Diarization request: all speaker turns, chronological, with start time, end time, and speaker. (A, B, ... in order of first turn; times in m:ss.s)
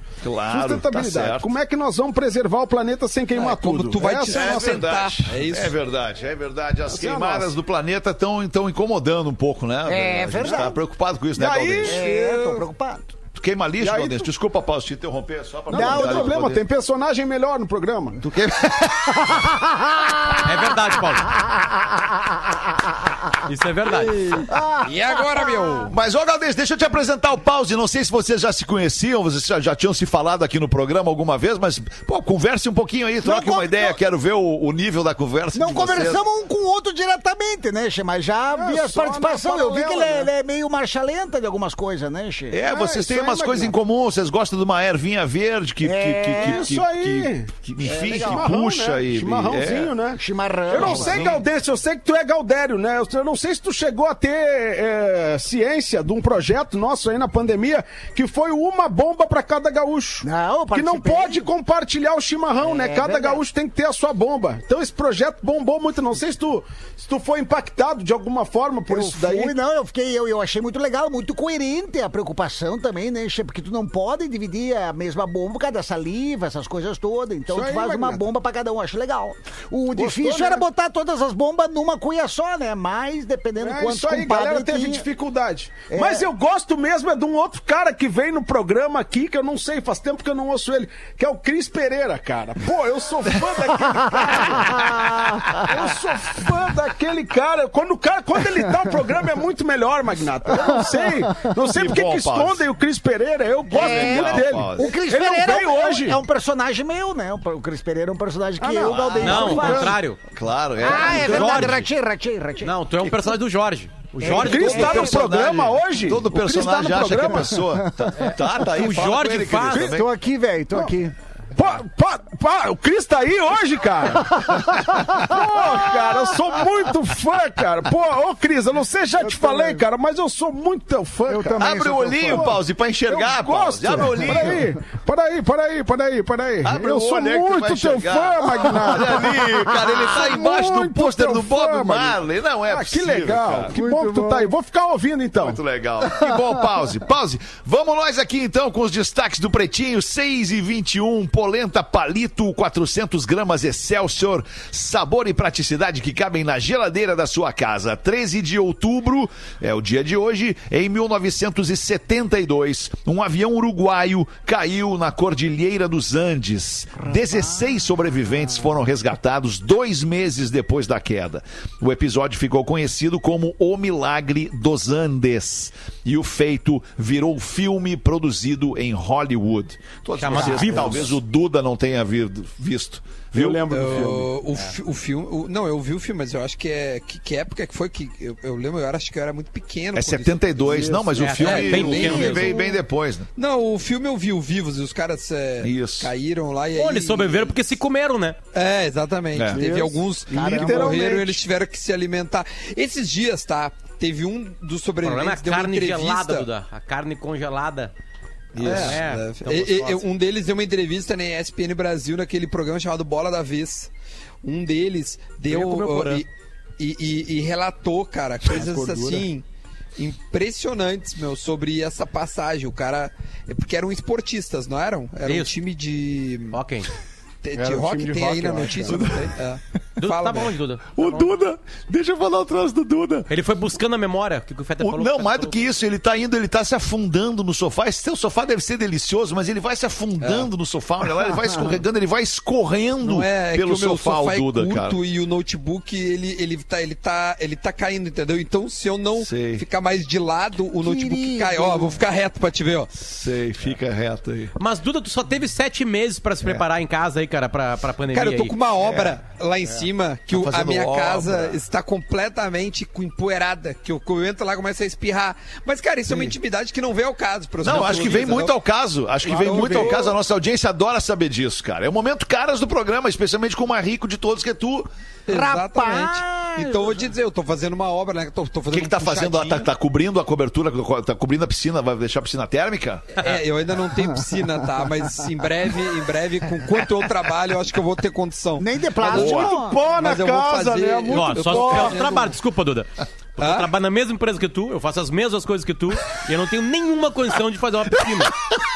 0:00.2-0:01.5 A
0:00.5-0:04.8 B
0:03.3-0:05.8 C
0:04.3-0:12.0 A
0:06.9-0:07.5 B
0:09.9-0:10.8 D
0:11.4-0:12.6 B
0:11.8-0:13.1 D
0:13.4-0:16.6 A
0:13.8-0:14.2 B
0:15.7-0:18.2 B
0:15.7-0:16.4 D
0:18.2-0:19.5 A
0:19.1-0:20.7 D
0:20.4-0:21.3 E
0:21.3-0:23.2 D
0:23.5-0:24.4 E
0:24.5-0:25.9 D
0:24.8-0:25.9 C
0:25.9-0:36.2 A
0:33.2-0:34.0 D
0:35.5-0:42.6 D
0:38.6-0:40.3 B
0:42.5-0:49.9 A
0:42.7-0:43.7 B
0:45.8-0:46.8 D
0:46.4-1:09.6 B
0:47.8-0:48.5 D
0:50.2-0:51.4 D
0:50.7-0:51.4 A
1:00.2-1:01.5 D
1:02.6-1:03.4 D
1:08.9-1:25.1 D
1:17.5-1:18.2 B
1:19.9-1:20.6 B
1:23.6-1:34.9 B
1:25.9-1:26.3 D
1:33.8-1:36.0 D
1:34.8-1:35.7 A
1:35.6-1:46.2 B
1:40.5-1:41.4 D
1:41.7-1:42.7 A
1:43.7-1:50.0 D
1:43.7-1:44.9 A
1:48.6-1:50.0 B
1:48.8-1:49.4 A
1:49.2-1:50.2 E
1:50.3-1:51.8 A
1:50.8-1:52.7 D
1:50.8-1:51.9 E
1:52.6-1:55.1 E
1:54.2-1:55.5 D
1:54.3-1:57.8 B
1:54.3-2:00.1 A
1:58.7-1:59.9 E
1:59.8-2:01.2 D
2:01.6-2:12.6 B
2:04.3-2:05.9 D
2:05.0-2:05.7 A
2:09.2-2:09.8 D
2:11.3-2:12.5 D
2:11.6-2:14.7 A
2:13.1-2:22.2 B
2:14.0-2:14.6 D
2:16.6-2:23.7 A
2:18.4-2:20.4 D
2:22.7-2:25.6 B
2:23.7-2:24.5 D
2:25.4-3:03.6 A
2:47.0-2:48.7 D
3:00.2-3:01.1 E
3:00.4-3:01.0 B
3:03.3-3:04.3 B
3:03.7-3:10.9 C
3:10.0-3:13.3 A
3:10.7-3:11.2 B
3:11.2-3:12.6 E
3:11.4-3:12.7 C
3:13.4-3:17.6 C
3:15.6-3:16.1 A
3:16.8-3:18.4 E
3:18.5-3:26.5 C
3:19.4-3:19.6 A
3:19.5-3:21.2 B
3:20.3-3:21.4 D
3:25.0-3:27.9 E
3:28.6-3:33.9 C
3:28.6-3:29.0 A
3:28.6-3:30.0 E
3:34.4-3:36.3 C
3:35.5-3:36.2 E
3:36.8-3:39.4 C
3:38.5-3:39.3 B
3:40.0-3:46.6 C
3:45.3-3:45.5 E
3:46.5-3:46.9 E
3:47.4-3:50.5 C
3:47.6-3:49.1 B
3:48.9-3:49.3 A
3:50.0-3:51.3 E
3:51.0-3:53.3 A
3:53.3-3:55.6 E
3:54.8-4:05.0 A
4:00.2-4:00.5 C
4:03.0-4:12.9 C
4:09.2-4:09.6 A
4:10.8-4:12.0 D
4:12.9-4:14.5 A
4:14.6-4:18.5 E
4:18.1-4:28.5 C
4:18.8-4:19.2 A
4:20.3-4:21.6 A
4:27.6-4:34.9 A
4:29.2-4:30.1 C
4:29.3-4:30.0 B
4:35.3-4:39.7 C
4:35.3-4:37.1 D
4:38.7-4:43.0 A
4:43.2-4:48.7 C
4:44.0-4:44.8 D
4:48.6-4:49.8 D
4:49.0-4:49.6 A
4:49.1-4:52.3 B
4:49.9-4:52.3 C
4:51.1-4:58.3 E
4:53.4-4:53.7 C